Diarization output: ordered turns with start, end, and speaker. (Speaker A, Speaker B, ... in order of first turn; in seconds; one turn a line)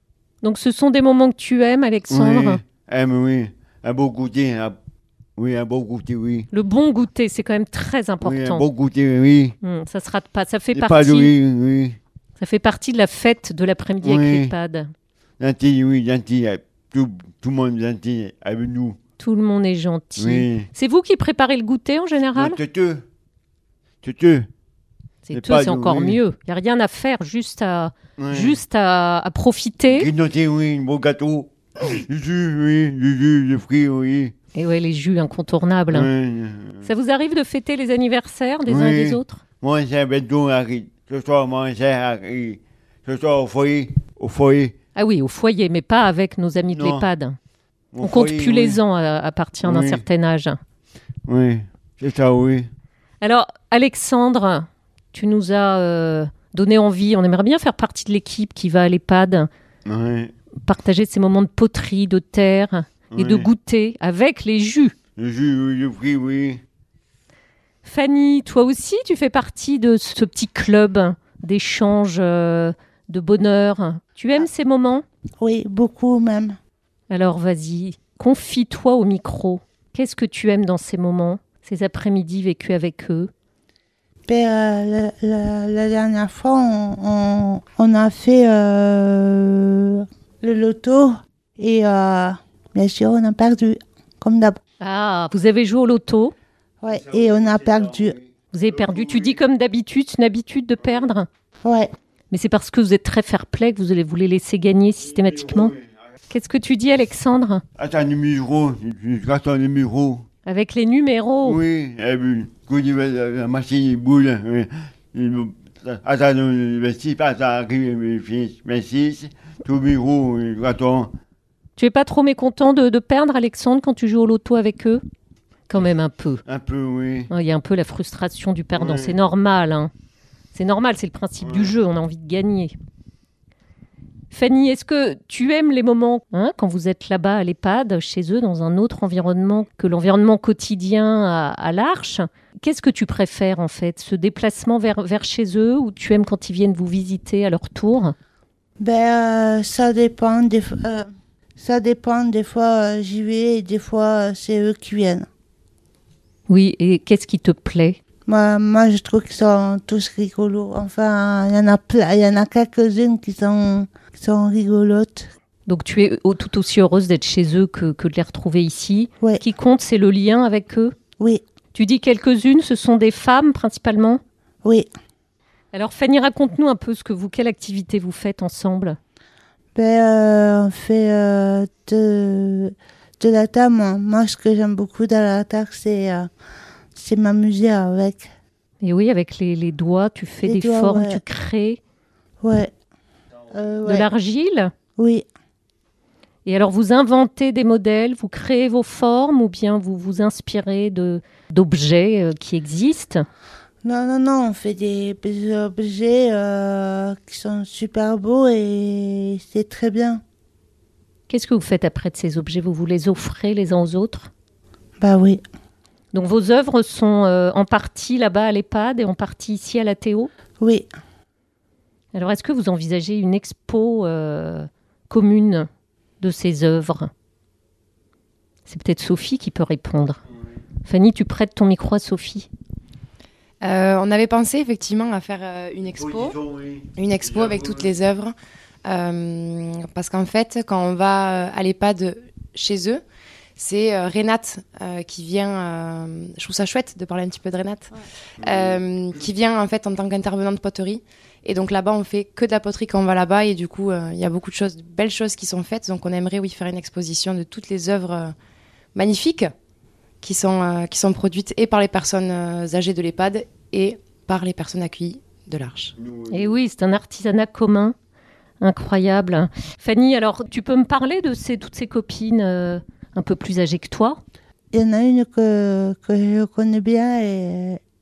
Speaker A: 0.4-2.6
Speaker B: 2.1-4.8
Speaker B: 5.4-6.5
Speaker A: 6.5-8.7
Speaker B: 8.2-9.6
Speaker A: 9.6-11.3
Speaker B: 10.7-12.0
Speaker A: 12.4-14.9
Speaker B: 14.0-14.5
Speaker B: 15.4-19.0
Speaker A: 19.2-22.6
Speaker B: 20.2-20.7
Speaker B: 22.4-23.0
Speaker B: 24.0-24.5
Speaker A: 25.3-30.1
Speaker B: 25.3-26.2
Speaker B: 28.2-28.6
Speaker B: 29.9-34.3
Speaker A: 34.5-36.1
Speaker B: 35.9-36.9
Speaker A: 36.8-39.4
Speaker B: 38.7-44.8
Speaker A: 45.0-47.4
Speaker B: 46.7-47.1
Speaker B: 47.9-48.8
Speaker A: 48.0-50.6
Speaker B: 49.6-50.0
Speaker B: 51.3-52.7
Speaker A: 53.2-59.5
Speaker B: 59.9-60.3
Speaker A: 60.6-65.0
Speaker B: 63.1-63.5
Speaker B: 65.2-66.6
Speaker A: 67.8-75.0
Speaker C: 75.4-76.5
Speaker A: 77.1-83.3
Speaker C: 84.3-94.6
Speaker A: 94.8-96.3
Speaker C: 96.8-98.2
Speaker B: 96.9-99.4
Speaker A: 98.5-101.3
Speaker C: 101.6-101.9
Speaker A: 102.3-105.8
Speaker B: 105.1-105.9
Speaker A: 106.3-107.6
Speaker B: 107.8-110.2
Speaker A: 110.5-111.6
Speaker B: 111.4-121.1
Speaker A: 121.8-125.0
Speaker A: 125.7-126.4
Speaker B: 126.5-127.3
Speaker A: 127.3-129.9
Speaker B: 128.8-129.2
Speaker A: 130.5-132.8
Speaker B: 131.4-131.8
Speaker A: 134.3-148.1
Speaker C: 148.8-151.1
Speaker C: 151.6-155.3
Speaker A: 156.5-158.0
Speaker C: 158.3-165.3
Speaker A: 165.7-170.9
Speaker A: 171.8-174.2
Speaker C: 174.6-174.9
Speaker A: 175.7-179.0
Speaker C: 179.8-186.3
Speaker C: 186.9-188.3
Speaker A: 188.8-191.8
Speaker C: 190.4-191.2
Speaker C: 192.4-192.7
Speaker C: 193.5-194.1
Speaker A: 193.8-194.7
Speaker C: 195.0-195.2
Speaker A: 196.4-203.2
Speaker C: 203.8-210.2
Speaker A: 211.3-214.3
Speaker C: 215.0-215.4
Speaker A: 216.1-220.3
Speaker C: 220.6-220.9
Speaker A: 222.1-225.7
Speaker A: 226.2-227.1
Speaker A: 228.7-230.2
Speaker A: 230.8-232.5
Speaker D: 233.6-236.4
Speaker B: 235.9-237.9
Speaker D: 237.0-238.3
Speaker D: 238.8-243.0
Speaker D: 243.6-258.3
Speaker B: 248.4-248.8
Speaker D: 258.9-259.5
Speaker D: 260.2-265.9
Speaker B: 266.0-266.6
Speaker A: 266.3-267.9
Speaker A: 268.6-274.2
Speaker C: 274.7-277.8